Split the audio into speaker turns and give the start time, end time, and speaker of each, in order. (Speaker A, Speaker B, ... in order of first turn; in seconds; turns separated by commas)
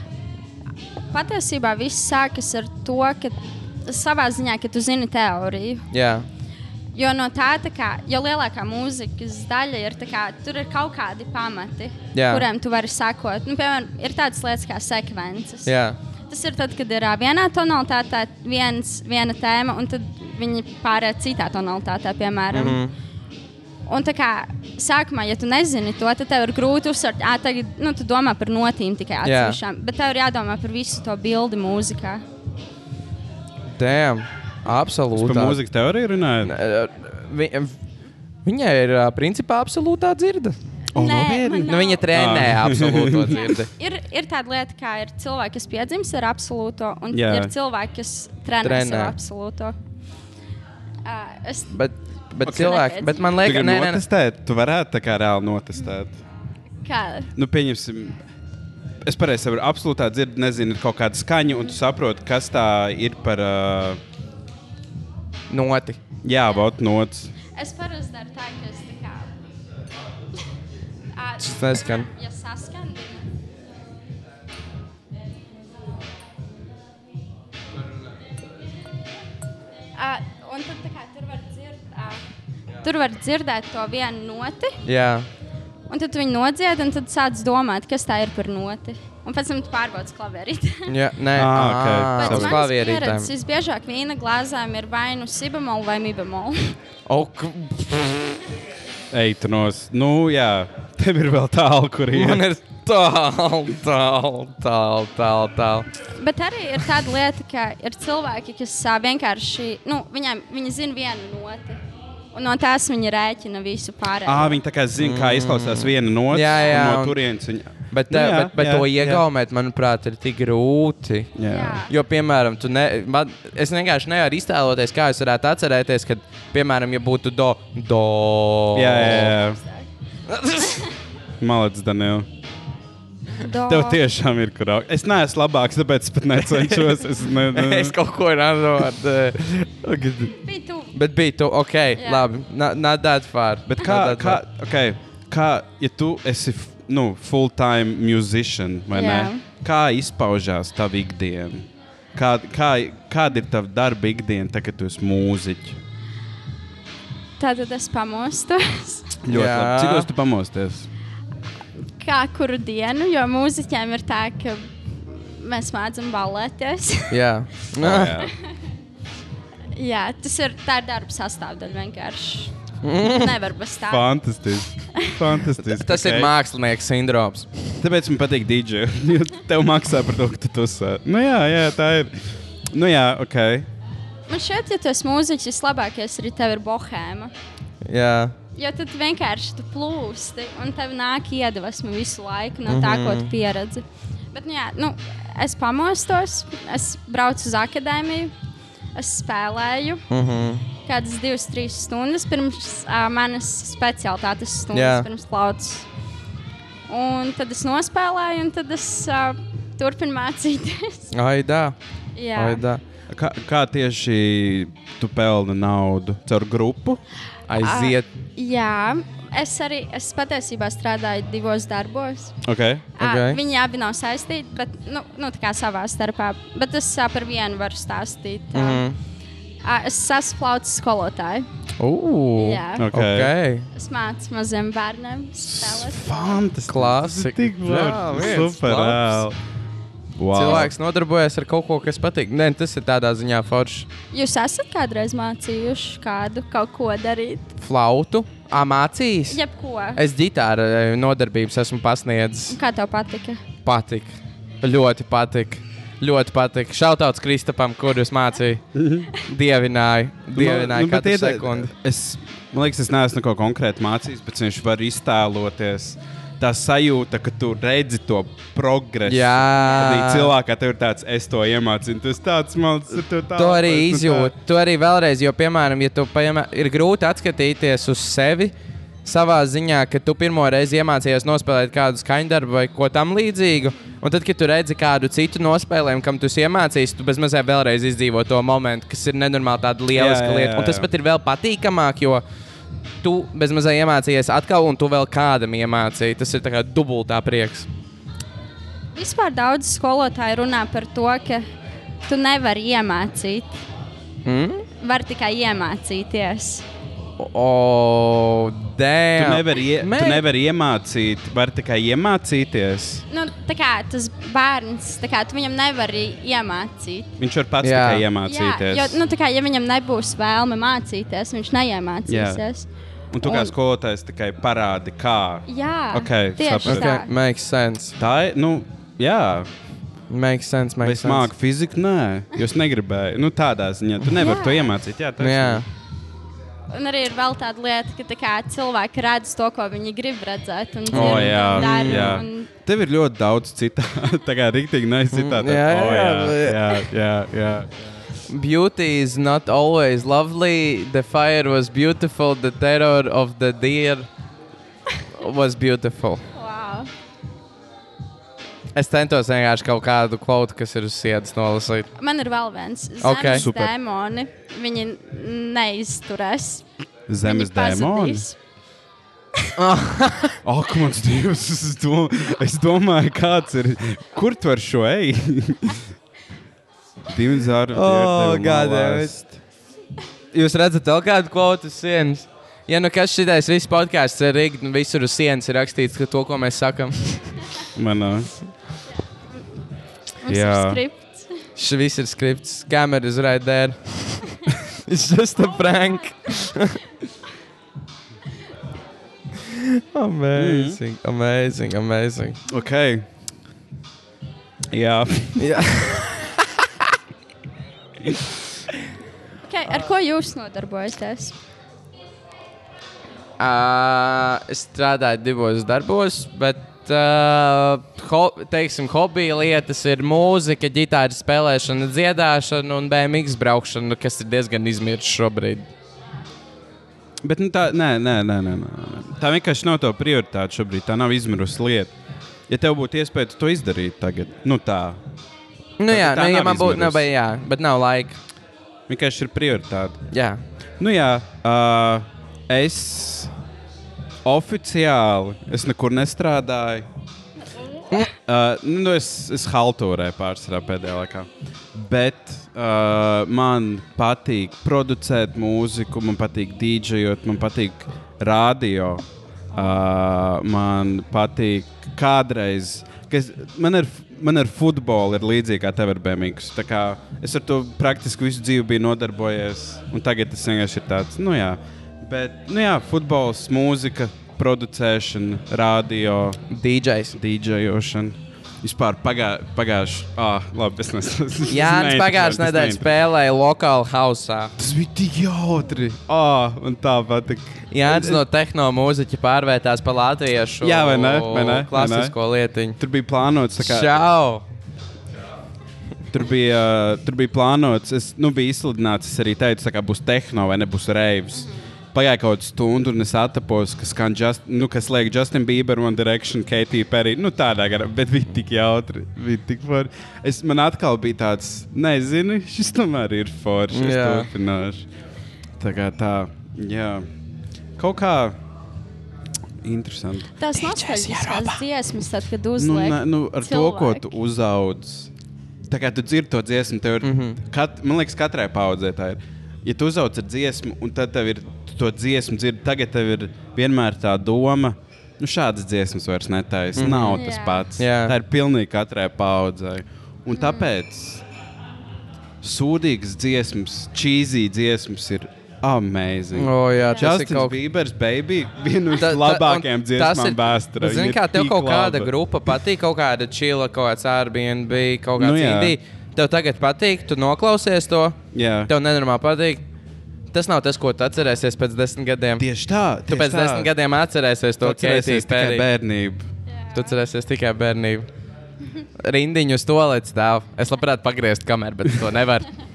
Speaker A: 1.1-5.8, Speaker B: 5.9-6.3, Speaker A: 6.9-15.7, Speaker B: 12.1-12.4, Speaker B: 15.7-16.0, Speaker A: 16.3-22.8, Speaker B: 22.5-22.9, Speaker A: 23.9-32.2, Speaker B: 29.2-29.6, Speaker B: 33.7-35.6, Speaker C: 35.1-36.5, Speaker B: 36.4-37.7, Speaker B: 38.4-40.5, Speaker A: 40.9-42.0, Speaker C: 40.9-43.4, Speaker B: 41.5-43.7, Speaker A: 43.3-49.7, Speaker C: 47.1-47.5, Speaker B: 48.6-49.1, Speaker A: 51.0-51.7, Speaker B: 51.7-54.0, Speaker A: 52.4-53.3, Speaker C: 52.4-52.7, Speaker C: 53.4-56.2, Speaker A: 56.8-57.3, Speaker C: 57.4-58.2, Speaker C: 59.0-64.0, Speaker B: 65.5-66.0, Speaker C: 66.2-67.3, Speaker A: 67.5-69.3, Speaker A: 71.1-73.3, Speaker B: 71.4-72.1, Speaker A: 80.0-82.2, Speaker A: 82.8-84.8, Speaker B: 84.8-85.3, Speaker A: 85.9-90.9, Speaker B: 90.9-93.3, Speaker C: 91.3-92.6, Speaker A: 92.2-96.7, Speaker B: 97.1-98.4, Speaker C: 99.1-102.5, Speaker B: 102.1-105.9, Speaker A: 106.2-111.8, Speaker A: 112.3-114.6, Speaker C: 114.2-119.2, Speaker B: 115.0-117.2, Speaker B: 117.9-121.3, Speaker C: 121.3-121.9, Speaker A: 121.5-121.9, Speaker B: 121.9-129.3, Speaker C: 128.7-129.6, Speaker A: 129.4-129.9, Speaker B: 130.3-130.8, Speaker C: 131.4-132.3, Speaker A: 133.4-134.0, Speaker C: 133.7-137.9, Speaker B: 136.3-140.3, Speaker A: 140.3-140.9, Speaker B: 140.9-144.4, Speaker A: 142.0-142.3, Speaker C: 143.7-155.8, Speaker A: 148.9-149.4, Speaker A: 157.4-159.1, Speaker C: 159.2-160.9, Speaker B: 159.3-160.1, Speaker A: 162.0-167.2, Speaker B: 167.1-168.2, Speaker C: 167.8-168.3, Speaker A: 169.7-172.5, Speaker B: 172.8-173.3, Speaker A: 173.1-174.1, Speaker C: 173.9-176.3, Speaker B: 175.6-177.5, Speaker C: 177.8-182.1, Speaker C: 182.7-183.7, Speaker A: 184.3-187.3, Speaker B: 187.8-188.3, Speaker A: 188.6-198.3, Speaker B: 192.7-193.3, Speaker A: 198.9-200.0, Speaker B: 200.1-200.7, Speaker A: 200.8-205.9, Speaker B: 204.7-205.1, Speaker A: 206.9-211.1, Speaker B: 211.1-211.8, Speaker A: 212.1-212.6, Speaker B: 212.3-212.8, Speaker C: 213.1-217.0, Speaker B: 217.5-218.1, Speaker A: 217.6-222.3, Speaker C: 222.4-222.8, Speaker A: 223.0-228.8, Speaker B: 223.0-223.4, Speaker B: 228.5-229.0, Speaker A: 229.6-231.5, Speaker B: 231.8-233.7, Speaker A: 232.4-232.9, Speaker C: 232.8-233.3, Speaker A: 233.7-236.4, Speaker C: 235.5-239.4, Speaker B: 236.7-239.2, Speaker C: 240.1-240.7, Speaker B: 240.3-243.9, Speaker A: 244.1-247.5, Speaker B: 247.6-249.4, Speaker A: 249.3-250.0, Speaker B: 249.9-252.6, Speaker A: 252.5-253.4, Speaker B: 253.6-261.7, Speaker C: 258.7-259.1, Speaker C: 260.3-274.3, Speaker B: 269.1-270.3, Speaker B: 273.3-278.5, Speaker B: 279.0-292.2, Speaker C: 289.9-290.9, Speaker B: 293.0-297.7, Speaker A: 298.9-301.4, Speaker A: 302.1-303.6, Speaker B: 304.2-304.6, Speaker A: 304.8-306.6, Speaker B: 307.2-310.2, Speaker C: 309.1-313.0, Speaker A: 313.1-317.1, Speaker C: 317.2-319.0, Speaker B: 317.6-318.0, Speaker A: 318.2-322.7, Speaker C: 322.1-322.4, Speaker C: 323.1-327.0, Speaker A: 323.2-323.5, Speaker A: 325.5-327.1, Speaker B: 326.6-328.0, Speaker C: 328.0-329.5, Speaker B: 330.1-331.3, Speaker C: 330.8-335.6, Speaker A: 334.2-334.7, Speaker B: 335.2-335.6, Speaker A: 336.7-342.5, Speaker C: 340.9-347.7, Speaker B: 340.9-342.2, Speaker B: 345.1-346.8, Speaker B: 348.3-354.1, Speaker B: 355.1-356.2, Speaker A: 356.3-356.9, Speaker B: 358.7-361.9, Speaker A: 361.9-366.6, Speaker B: 363.0-363.4, Speaker C: 363.3-363.7, Speaker C: 367.1-368.3, Speaker A: 367.2-368.4, Speaker B: 369.6-370.4, Speaker C: 370.4-375.8, Speaker C: 377.1-379.3, Speaker B: 377.7-379.3, Speaker B: 380.3-387.3, Speaker C: 387.7-388.3, Speaker A: 390.2-391.4, Speaker C: 390.3-390.8, Speaker B: 391.6-396.8, Speaker B: 399.5-402.4, Speaker C: 400.3-400.8, Speaker C: 402.5-403.0, Speaker C: 404.7-405.6, Speaker B: 405.4-406.5, Speaker A: 409.4-411.3, Speaker B: 413.4-425.7, Speaker C: 427.2-431.9, Speaker C: 432.5-435.0, Speaker B: 435.8-438.2, Speaker C: 435.9-437.1, Speaker C: 438.9-440.0, Speaker B: 440.1-440.4, Speaker C: 440.8-443.3, Speaker C: 444.2-446.9, Speaker C: 448.1-476.4, Speaker B: 476.5-477.1, Speaker C: 477.1-482.9, Speaker B: 481.5-484.5, Speaker C: 484.6-488.2, Speaker B: 487.7-492.8, Speaker C: 490.6-492.1, Speaker C: 492.8-494.0, Speaker B: 493.6-494.4, Speaker C: 496.1-514.8, Speaker B: 513.7-514.3, Speaker C: 515.6-517.0, Speaker C: 517.8-518.4, Speaker C: 519.6-521.5, Speaker A: 520.4-524.1, Speaker C: 522.6-525.1, Speaker C: 525.7-541.2, Speaker B: 527.0-527.4, Speaker B: 536.8-537.2, Speaker A: 537.1-537.7, Speaker B: 537.8-538.1, Speaker A: 540.3-540.7, Speaker C: 542.4-552.1, Speaker B: 546.3-547.6, Speaker B: 549.0-559.6, Speaker C: 555.2-555.8, Speaker C: 558.3-558.7, Speaker B: 560.3-562.5, Speaker C: 562.4-563.7, Speaker B: 563.1-565.6, Speaker C: 564.6-566.2, Speaker A: 566.5-567.0, Speaker B: 566.7-568.1, Speaker B: 569.0-572.5